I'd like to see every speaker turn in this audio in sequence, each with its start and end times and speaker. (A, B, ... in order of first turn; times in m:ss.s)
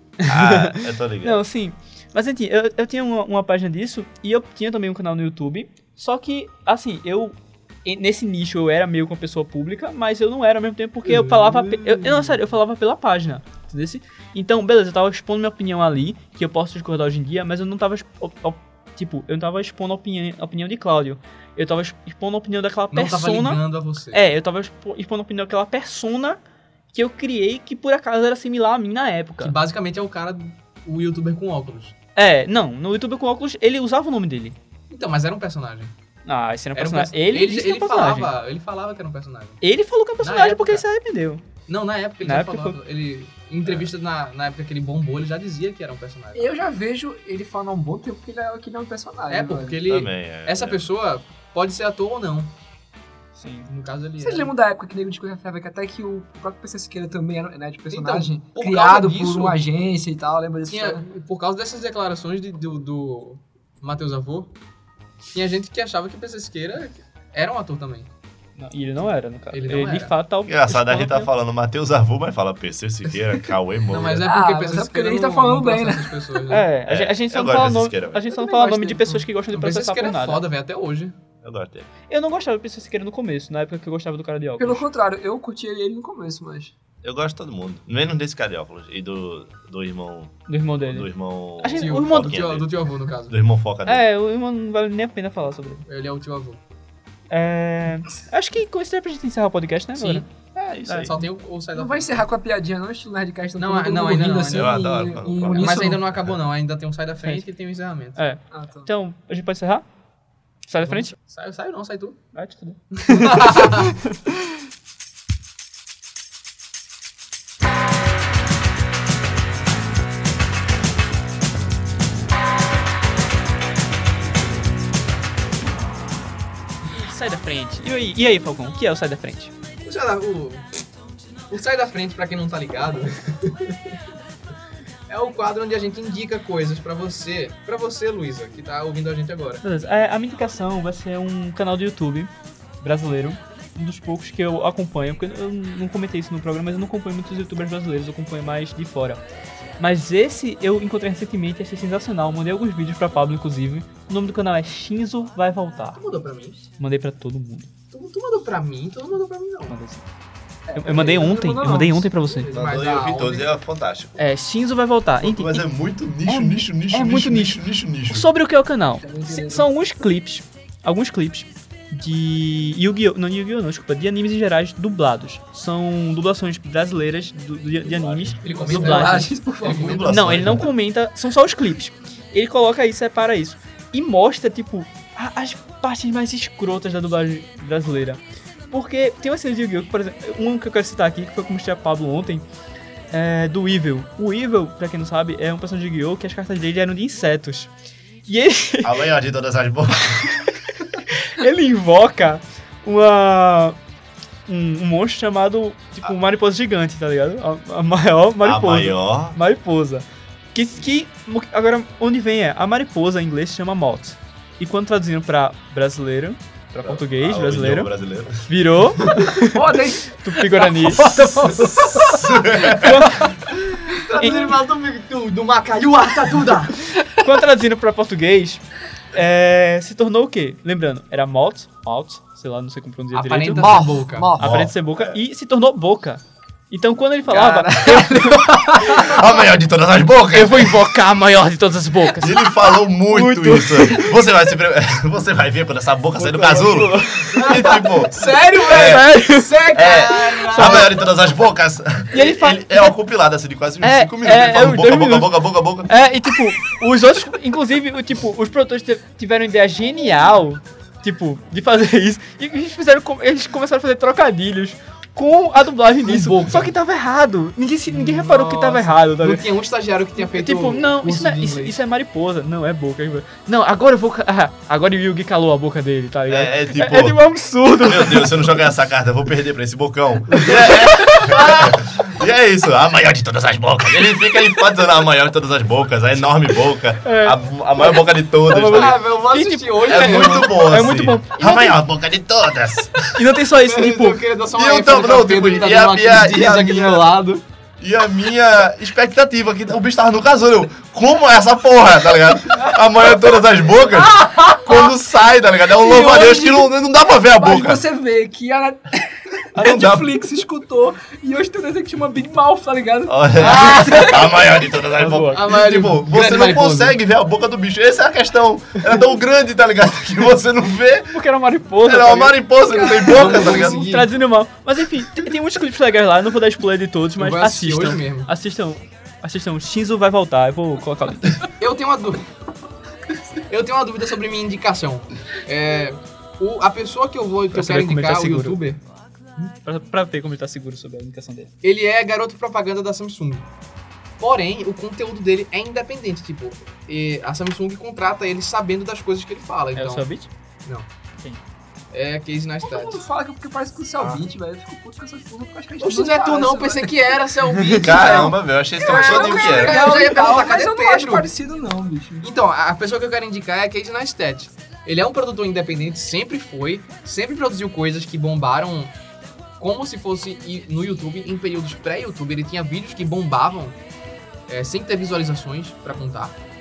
0:00.2-0:23.6 A
0:00.2-0:01.4 B
0:11.0-0:12.4 C
0:22.9-0:24.2 C
0:24.1-0:26.4 A
0:26.9-0:29.6 A
0:29.4-0:31.9 C
0:32.2-0:34.6 A
0:34.9-0:35.9 C
0:36.2-0:38.3 A
0:36.7-0:39.6 C
0:39.6-0:41.4 A
0:40.2-0:40.8 C
0:41.7-0:46.5 C
0:42.2-0:42.8 A
0:43.6-0:43.9 B
0:46.3-0:49.8 D
0:49.3-0:52.5 C
0:49.9-0:50.8 B
0:53.4-0:53.7 A
0:53.7-0:54.5 C
0:54.2-1:01.0 D
0:57.9-0:59.6 C
1:00.7-1:04.5 C
1:05.3-1:08.1 C
1:08.6-1:11.3 A
1:09.5-1:10.1 C
1:10.4-1:14.2 B
1:13.9-1:16.7 C
1:14.2-1:16.4 D
1:16.5-1:20.4 A
1:16.9-1:18.3 B
1:18.3-1:19.2 D
1:19.5-1:21.1 C
1:21.4-1:21.9 B
1:22.1-1:24.8 A
1:24.6-1:26.7 D
1:27.0-1:32.7 B
1:30.5-1:32.3 A
1:31.8-1:33.3 C
1:33.3-1:34.0 B
1:33.8-1:35.8 A
1:35.9-1:36.6 C
1:37.3-1:40.3 A
1:40.0-1:41.1 B
1:40.9-1:41.1 A
1:41.0-1:42.2 C
1:41.7-1:46.0 D
1:43.6-1:44.9 C
1:44.5-1:45.8 B
1:45.5-1:48.2 C
1:48.2-1:49.8 A
1:48.5-1:48.9 D
1:50.7-1:51.1 A
1:50.8-1:52.2 C
1:52.3-1:54.0 A
1:53.1-1:53.9 C
2:06.9-2:09.5 A
2:09.8-2:10.8 C
2:11.5-2:13.7 C
2:15.1-2:19.6 C
2:19.6-2:29.2 A
2:29.8-2:36.0 A
2:36.0-2:36.7 C
2:36.8-2:37.7 A
2:37.9-2:39.7 C
2:39.7-2:40.0 A
2:40.7-2:42.1 D
2:40.7-2:42.5 A
2:42.2-2:43.5 C
2:42.5-2:44.2 B
2:44.2-2:45.6 A
2:45.2-2:48.2 B
2:46.2-2:59.3 A
2:49.0-2:49.7 D
2:57.8-2:58.7 B
2:58.4-3:00.0 C
2:58.6-3:00.4 D
2:59.6-3:00.7 B
3:00.1-3:12.4 A
3:13.1-3:17.7 A
3:18.3-3:19.0 A
3:18.8-3:20.5 B
3:21.1-3:23.8 A
3:24.5-3:37.9 A
3:28.4-3:29.4 B
3:36.8-3:38.5 B
3:38.4-3:39.6 A
3:39.5-3:42.2 D
3:40.1-3:41.7 A
3:41.7-3:43.3 B
3:42.7-3:43.4 A
3:43.9-3:46.9 C
3:44.1-3:44.6 A
3:47.0-3:59.2 A
3:53.1-3:54.3 C
3:53.6-3:54.5 D
3:54.4-3:55.2 B
3:57.8-4:00.8 B
4:00.3-4:02.5 A
4:02.1-4:09.1 B
4:03.1-4:04.1 A
4:06.2-4:07.5 A
4:07.3-4:11.0 C
4:08.7-4:09.5 A
4:09.7-4:16.1 B
4:10.5-4:10.9 A
4:12.1-4:12.9 A
4:13.8-4:15.3 A
4:15.9-4:29.4 A
4:26.0-4:26.7 C
4:27.9-4:31.8 C
4:30.3-4:38.6 A
4:36.3-4:49.0 B
4:40.3-4:41.5 A
4:47.0-4:51.8 A
4:48.7-4:50.6 C
4:49.9-4:53.2 B
4:53.1-4:54.2 A
4:53.6-4:57.4 C
4:54.5-4:57.1 B
4:57.8-5:07.8 B
5:05.8-5:06.7 D
5:07.3-5:14.4 D
5:09.5-5:09.9 A
5:09.6-5:10.0 B
5:13.1-5:21.1 B
5:13.4-5:14.1 C
5:15.0-5:15.4 A
5:15.3-5:17.0 C
5:21.1-5:22.4 A
5:21.8-5:23.9 B
5:22.9-5:24.1 C
5:23.8-5:31.5 A
5:27.2-5:28.3 C
5:31.6-5:32.2 C
5:33.5-5:38.8 C
5:37.5-5:38.6 A
5:39.6-5:41.5 A
5:41.6-5:43.4 C
5:44.2-5:50.1 C
5:49.7-5:50.3 A
5:51.9-5:53.0 C
5:52.6-5:57.0 D
5:54.0-5:54.2 B
5:55.8-6:01.3 C
5:57.8-5:59.9 B
5:58.0-6:02.3 D
6:02.2-6:08.9 C
6:09.6-6:13.8 C
6:14.5-6:16.4 C